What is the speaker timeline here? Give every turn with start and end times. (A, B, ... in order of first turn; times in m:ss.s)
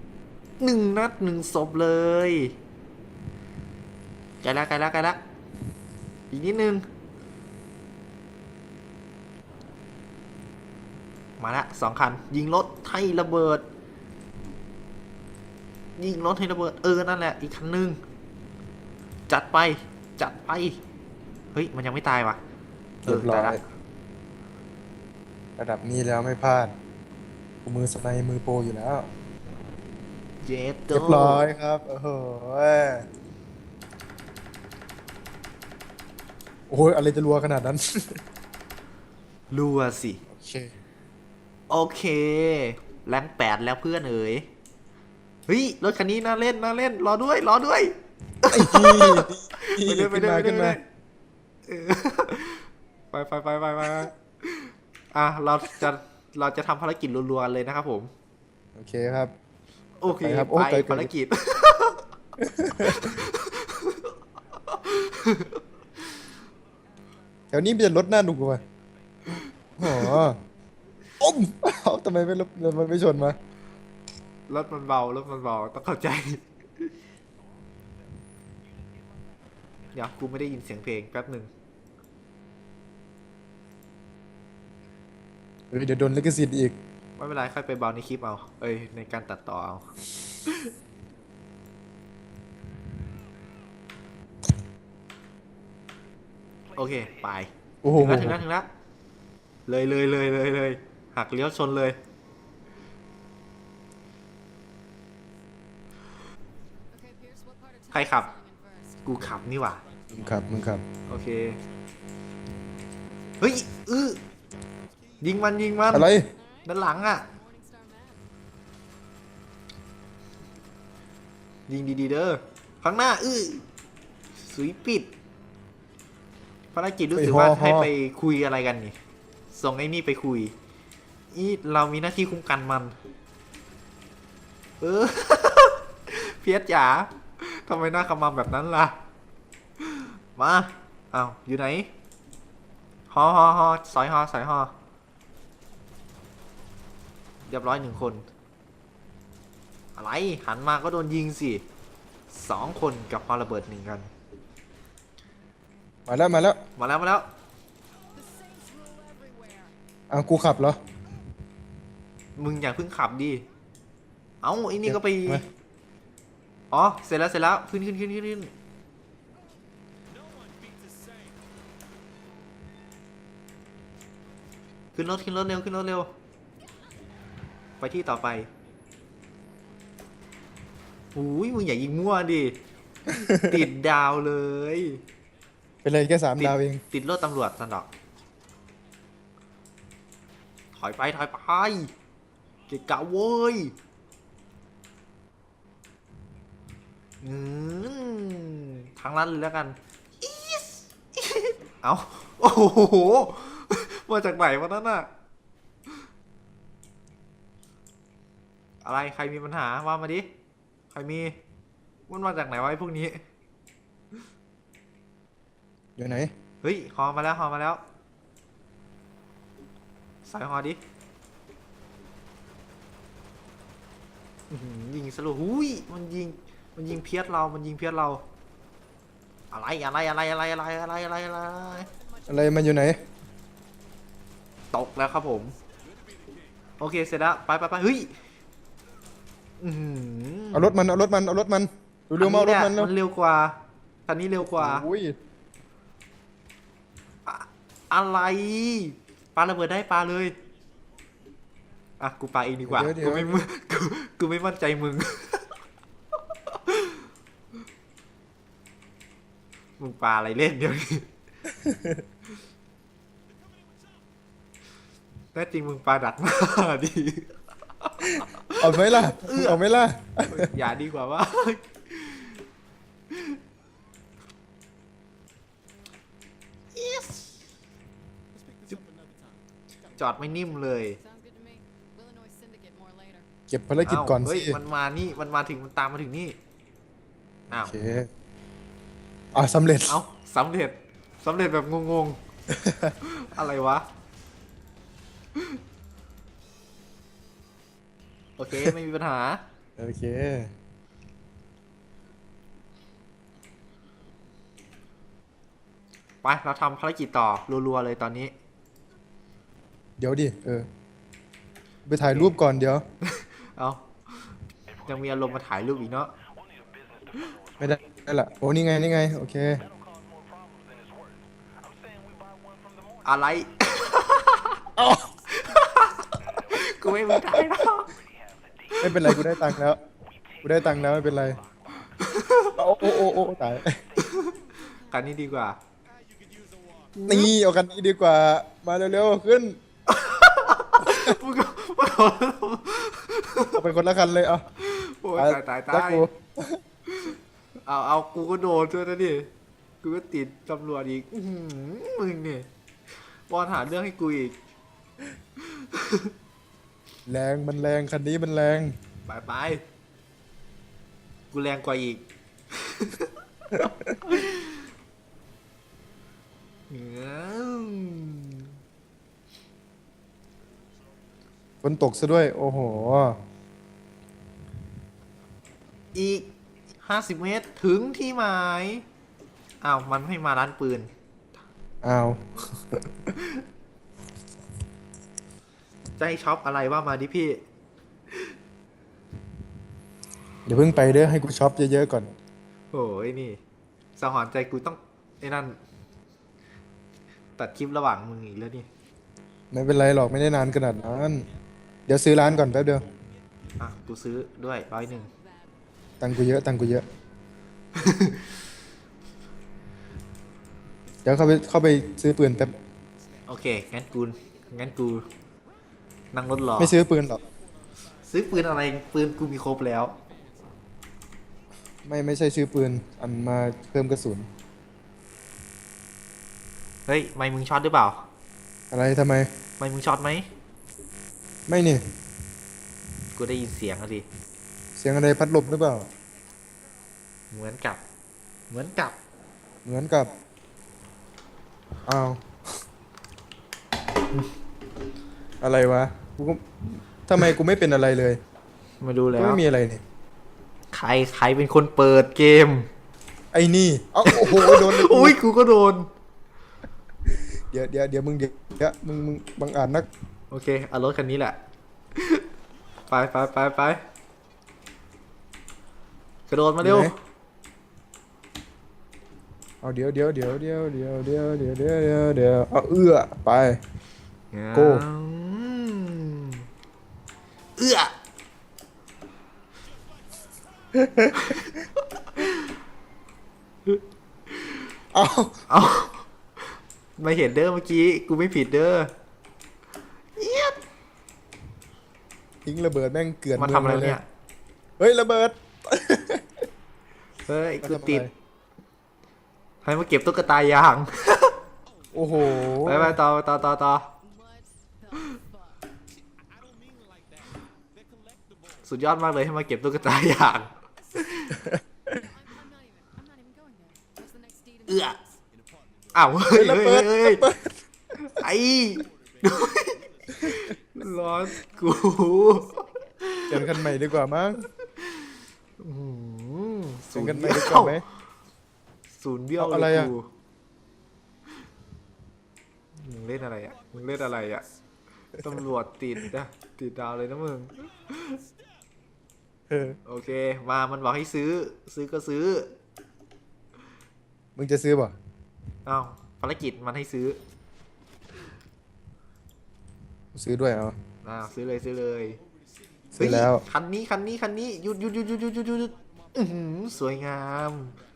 0:00.6-0:02.6 A
0:04.4-0:05.2 A
0:06.3-0:06.8 A
0:11.4-0:13.6 A
0:16.0-0:18.0 A
0:19.3-0:20.8 A
0:21.5-0:22.4 A
0:23.0-0:23.6 B
0:23.0-0:23.6 A
0:25.6-0:26.7 B
0:27.6-0:29.1 B
0:30.4-0:31.5 A
0:30.9-0:33.1 B
0:36.7-0:38.2 B
0:39.5-0:40.2 A
0:40.3-0:40.7 B
0:41.7-0:44.5 A
0:45.5-0:50.8 A
0:48.5-0:50.8 B
0:51.7-0:58.1 A
0:58.8-0:59.3 B
1:00.0-1:02.0 A
1:00.1-1:01.1 B
1:02.4-1:03.2 B
1:02.7-1:04.1 A
1:04.6-1:05.6 A
1:07.5-1:08.6 B
1:09.3-1:10.2 A
1:09.8-1:10.4 B
1:11.2-1:13.4 B
1:14.5-1:16.9 A
1:19.9-1:21.5 A
1:25.7-1:26.8 B
1:27.2-1:29.8 A
1:30.4-1:30.7 A
1:36.7-1:38.7 A
1:37.8-1:38.4 B
1:39.7-1:42.0 A
1:46.9-1:49.3 C
1:47.9-1:48.3 A
1:49.0-1:49.8 A
1:50.1-1:50.8 B
1:51.1-1:51.6 A
1:53.4-1:54.2 A
1:55.2-1:56.1 A
1:55.9-1:56.3 B
1:56.3-1:58.3 C
1:56.6-1:57.2 A
2:01.7-2:03.6 A
2:04.4-2:05.1 A
2:06.7-2:08.9 A
2:07.2-2:07.9 B
2:09.5-2:10.5 A
2:11.3-2:12.9 A
2:14.8-2:19.0 A
2:19.8-2:21.9 A
2:23.1-2:24.7 A
2:27.5-2:28.2 A
2:30.0-2:31.6 A
2:32.3-2:34.1 A
2:36.1-2:36.6 B
2:36.8-2:37.3 A
2:38.1-2:39.7 C
2:40.1-2:40.8 B
2:42.4-2:43.4 A
2:44.4-2:45.4 A
2:44.8-2:45.4 B
2:46.7-2:48.5 A
2:54.9-2:56.1 A
2:57.8-2:58.5 A
3:01.1-3:05.0 A
3:03.1-3:03.7 B
3:05.8-3:06.8 B
3:06.4-3:07.9 A
3:10.7-3:11.9 A
3:12.7-3:13.7 A
3:17.2-3:25.1 A
3:28.8-3:30.3 A
3:30.9-3:31.4 A
3:32.1-3:33.2 A
3:36.0-3:36.3 B
3:36.6-3:37.8 A
3:40.2-3:40.8 A
3:44.5-3:48.2 A
3:49.5-3:51.9 A
3:52.3-3:53.0 B
3:54.7-3:55.5 A
3:56.8-3:58.1 A
3:59.6-4:00.7 A
4:00.5-4:02.9 B
4:02.2-4:03.6 A
4:04.1-4:04.8 A
4:04.4-4:05.2 B
4:07.2-4:10.3 A
4:12.0-4:15.4 A
4:12.6-4:13.4 B
4:16.5-4:17.0 A
4:19.8-4:21.1 A
4:21.6-4:22.0 B
4:25.3-4:29.6 A
4:28.6-4:30.5 B
4:30.3-4:32.4 A
4:33.1-4:33.4 A
4:36.7-4:37.4 A
4:39.9-4:41.0 A
4:41.0-4:43.3 C
4:43.5-4:44.6 B
4:43.8-4:46.4 A
4:47.5-4:47.8 A
4:47.5-4:48.1 B
4:49.3-4:50.0 B
4:49.9-4:52.2 A
4:52.5-4:52.9 B
4:53.0-4:53.8 A
4:58.4-4:59.4 A
4:59.8-5:00.5 B
5:06.2-5:08.3 A
5:10.0-5:10.7 B
5:11.9-5:12.8 B
5:12.0-5:12.4 A
5:13.0-5:14.2 A
5:14.8-5:16.1 A
5:17.6-5:19.6 B
5:23.0-5:24.6 A
5:24.8-5:25.1 B
5:25.3-5:27.9 A
5:27.1-5:27.4 B
5:28.7-5:29.3 A
5:28.8-5:29.8 B
5:30.4-5:31.4 B
5:31.8-5:32.6 A
5:32.6-5:33.8 B
5:34.0-5:35.6 A
5:36.9-5:37.3 A
5:37.0-5:39.6 B
5:39.9-5:43.6 A
5:40.8-5:41.2 B
5:43.5-5:44.4 B
5:44.6-5:46.0 A
5:45.2-5:46.6 B
5:46.9-5:49.3 A
5:49.8-5:52.5 A
5:53.3-5:54.4 A
5:55.4-5:56.1 A
5:57.1-5:58.7 B
5:59.1-5:59.6 A
6:01.3-6:04.6 A
6:06.7-6:08.5 A
6:11.6-6:13.2 B
6:15.9-6:16.3 A
6:16.8-6:18.8 A
6:19.6-6:20.9 A
6:21.8-6:23.2 B
6:26.0-6:27.4 A
6:30.4-6:32.1 B
6:32.7-6:33.4 A
6:34.0-6:35.6 A
6:37.4-6:38.7 A
6:39.5-6:41.3 B
6:41.9-6:42.8 B
6:43.6-6:45.1 A
6:45.2-6:45.5 C
6:46.0-6:46.8 B
6:47.7-6:48.3 A
6:51.0-6:52.5 B
6:53.3-6:55.0 A
6:56.1-6:56.8 A
6:56.6-6:57.2 B
6:58.0-6:59.9 A
7:01.8-7:04.3 B
7:06.9-7:08.0 A
7:08.7-7:09.3 B
7:09.6-7:10.3 A
7:11.5-7:11.8 B
7:13.1-7:14.0 A
7:14.8-7:15.9 B
7:17.3-7:17.8 A
7:18.5-7:19.0 A
7:19.6-7:20.1 B
7:21.8-7:22.3 B
7:25.4-7:28.2 B
7:28.8-7:29.4 A
7:29.2-7:29.8 B
7:30.7-7:32.7 A
7:33.3-7:35.2 B
7:34.0-7:35.9 A
7:37.5-7:39.9 B
7:40.3-7:41.4 A
7:42.0-7:42.2 A
7:42.9-7:43.8 A
7:46.3-7:46.9 A
7:46.6-7:46.9 B
7:49.6-7:53.6 B
7:54.3-7:56.4 A
7:54.5-7:54.8 B
7:57.6-7:57.9 A
8:00.7-8:01.2 B
8:01.1-8:02.5 A
8:03.6-8:04.6 A
8:04.9-8:05.4 B
8:05.5-8:06.0 A
8:07.0-8:08.9 A
8:10.2-8:10.6 A
8:12.4-8:14.0 B
8:13.4-8:14.0 A
8:14.8-8:16.2 B
8:17.3-8:18.0 A
8:17.6-8:18.1 B
8:19.6-8:21.4 A
8:21.9-8:23.0 B
8:22.6-8:23.9 A
8:24.0-8:25.6 C
8:28.6-8:31.4 A
8:31.3-8:32.0 B
8:31.8-8:35.2 C
8:34.7-8:35.0 A
8:35.9-8:37.2 A
8:36.3-8:37.5 B
8:38.0-8:42.5 A
8:41.4-8:43.1 C
8:43.0-8:43.5 A
8:43.3-8:44.4 B
8:45.6-8:47.8 A
8:46.9-8:47.8 B
8:49.0-8:50.1 A
8:49.4-8:49.9 B
8:52.8-8:54.4 A
8:55.2-8:58.2 A
8:59.5-8:59.8 B
8:59.8-9:02.5 A
9:04.4-9:04.9 B
9:05.6-9:07.2 A
9:10.1-9:10.8 B
9:11.0-9:12.2 A
9:12.9-9:13.4 B
9:13.0-9:17.7 A